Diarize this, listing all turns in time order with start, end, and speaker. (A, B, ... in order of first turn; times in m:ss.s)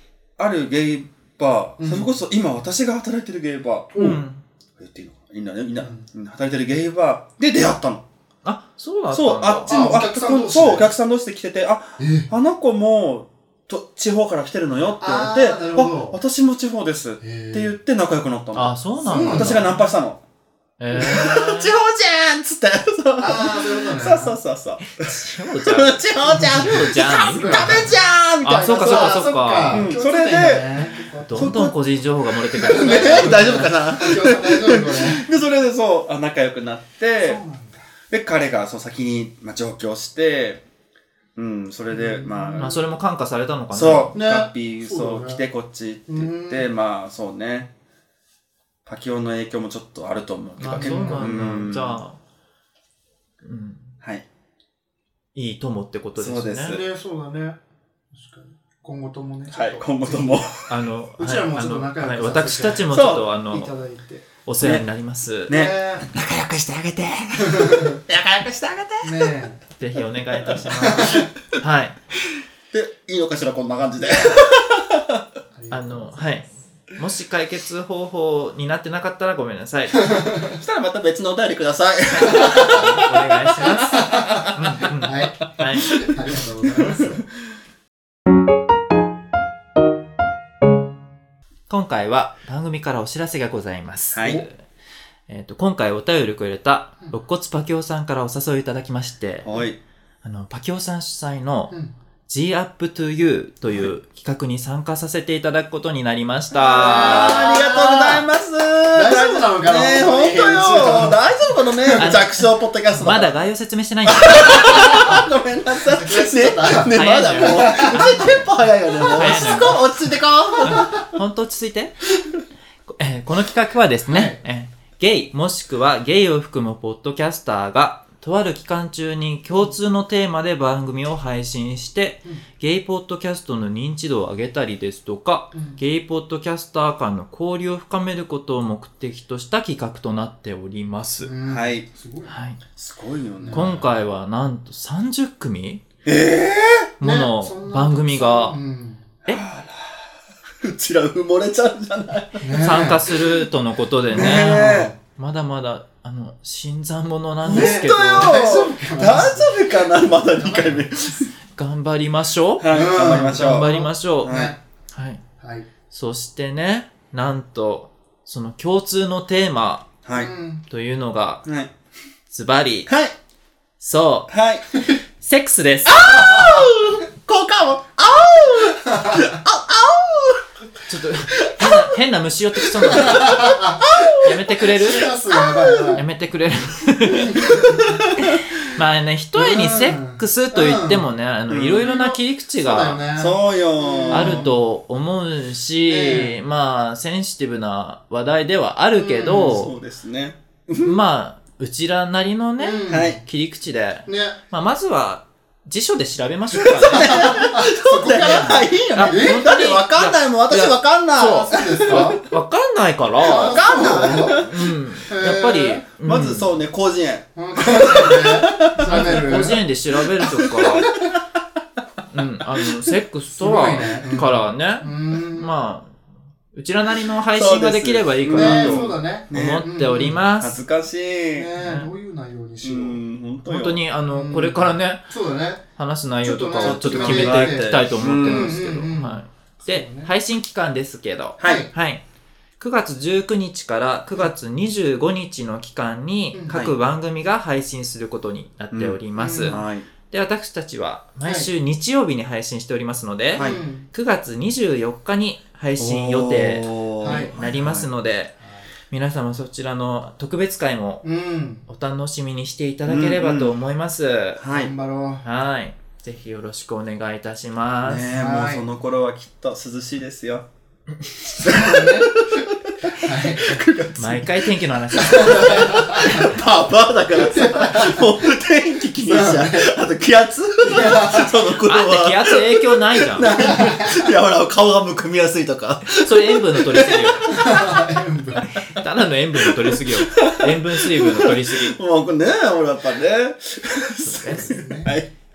0:00.4-0:04.2 A
0:01.8-0:02.1 B
0:03.9-0:04.2 B
0:04.0-0:04.4 C
0:04.8-0:08.0 A
0:05.8-0:06.1 B
0:08.4-0:09.7 C
0:09.1-0:20.2 A
0:09.6-0:10.9 B
0:12.0-0:12.3 B
0:15.0-0:16.2 B
0:17.2-0:17.8 B
0:18.5-0:19.9 C
0:19.0-0:19.6 B
0:20.8-0:21.8 C
0:20.9-0:21.2 B
0:21.0-0:31.8 A
0:23.2-0:24.4 B
0:24.8-0:27.9 C
0:26.2-0:28.0 B
0:28.4-0:29.9 C
0:28.6-0:31.5 B
0:31.3-0:33.5 C
0:32.5-0:37.4 A
0:32.6-0:35.3 B
0:37.2-0:37.9 B
0:38.1-0:40.6 A
0:41.4-0:42.8 A
0:41.9-0:42.8 B
0:42.6-0:44.2 C
0:43.7-0:47.7 A
0:44.2-0:45.4 B
0:46.1-0:46.7 B
0:48.9-0:52.0 A
0:50.6-0:52.2 C
0:50.7-0:51.4 B
0:53.4-0:53.9 C
0:55.3-0:56.8 C
0:56.2-0:56.8 A
0:56.6-0:57.6 B
0:58.1-1:00.4 B
0:59.5-1:00.6 A
1:00.7-1:03.7 C
1:01.2-1:04.3 B
1:02.9-1:03.3 A
1:04.4-1:05.5 C
1:04.6-1:04.9 A
1:05.5-1:06.1 B
1:05.5-1:09.3 A
1:07.5-1:08.0 B
1:09.0-1:09.6 B
1:09.8-1:12.0 C
1:10.0-1:11.2 A
1:10.8-1:11.3 B
1:12.7-1:15.2 A
1:14.0-1:14.4 B
1:15.6-1:16.3 B
1:15.7-1:20.1 C
1:20.0-1:20.6 B
1:20.6-1:23.5 A
1:22.2-1:22.9 B
1:22.6-1:26.1 C
1:23.6-1:27.2 B
1:25.7-1:26.1 A
1:26.8-1:27.1 A
1:31.7-1:34.6 C
1:34.1-1:34.4 A
1:35.3-1:39.5 C
1:39.4-1:39.8 A
1:40.2-1:41.7 C
1:42.3-1:47.5 C
1:46.6-1:48.2 B
1:46.6-1:53.3 A
1:48.9-1:52.2 B
1:52.0-1:55.2 C
1:54.1-2:01.0 A
1:55.8-1:58.3 B
1:56.9-1:58.4 C
1:59.0-1:59.8 C
1:59.0-1:59.8 B
2:00.6-2:01.9 C
2:03.0-2:21.3 C
2:04.1-2:04.4 B
2:15.5-2:15.8 B
2:21.2-2:22.4 B
2:21.5-2:21.9 A
2:22.3-2:22.6 C
2:22.8-2:23.9 A
2:23.4-2:23.7 B
2:23.5-2:25.8 C
2:26.0-2:26.9 A
2:27.0-2:28.6 C
2:27.0-2:29.1 B
2:29.3-2:30.0 A
2:30.6-2:32.8 A
2:32.4-2:33.1 B
2:32.6-2:38.4 C
2:34.1-2:34.9 A
2:34.1-2:35.0 B
2:37.4-2:40.8 B
2:37.4-2:41.3 A
2:41.6-2:44.4 C
2:42.6-2:44.5 A
2:42.7-2:44.6 B
2:44.9-2:45.2 C
2:45.4-2:45.7 B
2:45.9-2:49.9 C
2:50.0-2:50.3 A
2:50.2-2:50.6 B
2:50.7-2:51.4 C
2:51.4-2:51.7 A
2:52.3-2:52.9 C
2:52.9-2:53.1 A
2:53.8-2:54.3 C
2:54.3-2:54.6 A
2:55.2-2:56.0 C
2:55.9-3:00.4 A
2:56.2-2:56.7 B
2:58.8-2:59.3 B
3:00.9-3:03.5 C
3:01.5-3:01.8 A
3:02.8-3:06.0 A
3:02.9-3:04.0 B
3:04.2-3:05.1 C
3:04.8-3:06.0 B
3:05.9-3:07.4 C
3:07.1-3:07.8 B
3:08.2-3:13.0 C
3:09.4-3:11.1 B
3:11.5-3:11.9 A
3:11.8-3:14.5 B
3:13.2-3:14.5 A
3:14.1-3:19.8 C
3:15.9-3:16.4 B
3:19.0-3:19.7 B
3:19.5-3:21.0 A
3:20.8-3:27.4 C
3:22.6-3:23.2 B
3:22.9-3:23.2 A
3:24.1-3:24.4 B
3:26.5-3:32.2 A
3:26.9-3:29.5 B
3:28.2-3:36.6 C
3:31.3-3:32.2 B
3:33.2-3:34.5 B
3:33.2-3:34.5 A
3:35.1-3:35.9 B
3:36.0-3:39.6 A
3:37.4-3:39.6 B
3:38.8-3:40.9 C
3:40.2-3:40.9 A
3:42.1-3:46.0 C
3:43.3-3:45.5 B
3:44.0-3:44.3 A
3:46.5-3:50.6 C
3:47.3-3:49.7 A
3:48.3-3:50.2 B
3:50.3-3:51.5 A
3:51.3-3:53.0 B
3:51.6-3:51.9 C
3:52.6-3:53.8 A
3:53.4-3:55.1 C
3:54.1-3:55.6 B
3:55.8-4:02.0 C
3:56.2-4:00.1 B
3:56.6-3:58.5 A
4:01.4-4:01.7 A
4:01.4-4:01.7 B
4:02.6-4:18.3 C
4:06.3-4:06.6 B
4:06.5-4:06.8 A
4:08.7-4:09.9 A
4:09.2-4:09.7 B
4:11.2-4:11.5 B
4:13.3-4:13.6 A
4:13.4-4:13.9 B
4:15.8-4:17.9 A
4:17.0-4:17.4 B
4:18.4-4:18.7 B
4:18.9-4:21.0 C
4:21.0-4:21.6 B
4:21.7-4:24.4 C
4:22.9-4:23.6 A
4:24.4-4:24.7 A
4:24.5-4:25.2 B
4:25.2-4:28.1 C
4:27.8-4:30.5 A
4:28.2-4:28.6 B
4:31.4-4:42.5 A
4:31.5-4:32.1 B
4:33.0-4:33.6 B
4:34.0-4:36.3 C
4:35.1-4:36.1 B
4:37.2-4:38.3 B
4:39.0-4:39.7 B
4:40.6-4:41.3 B
4:41.6-4:43.4 C
4:43.1-4:47.4 A
4:43.4-4:43.9 B
4:45.8-4:47.8 C
4:47.2-4:48.4 B
4:48.4-4:51.8 C
4:49.4-4:55.1 A
4:54.0-4:54.6 C
4:54.5-4:55.0 B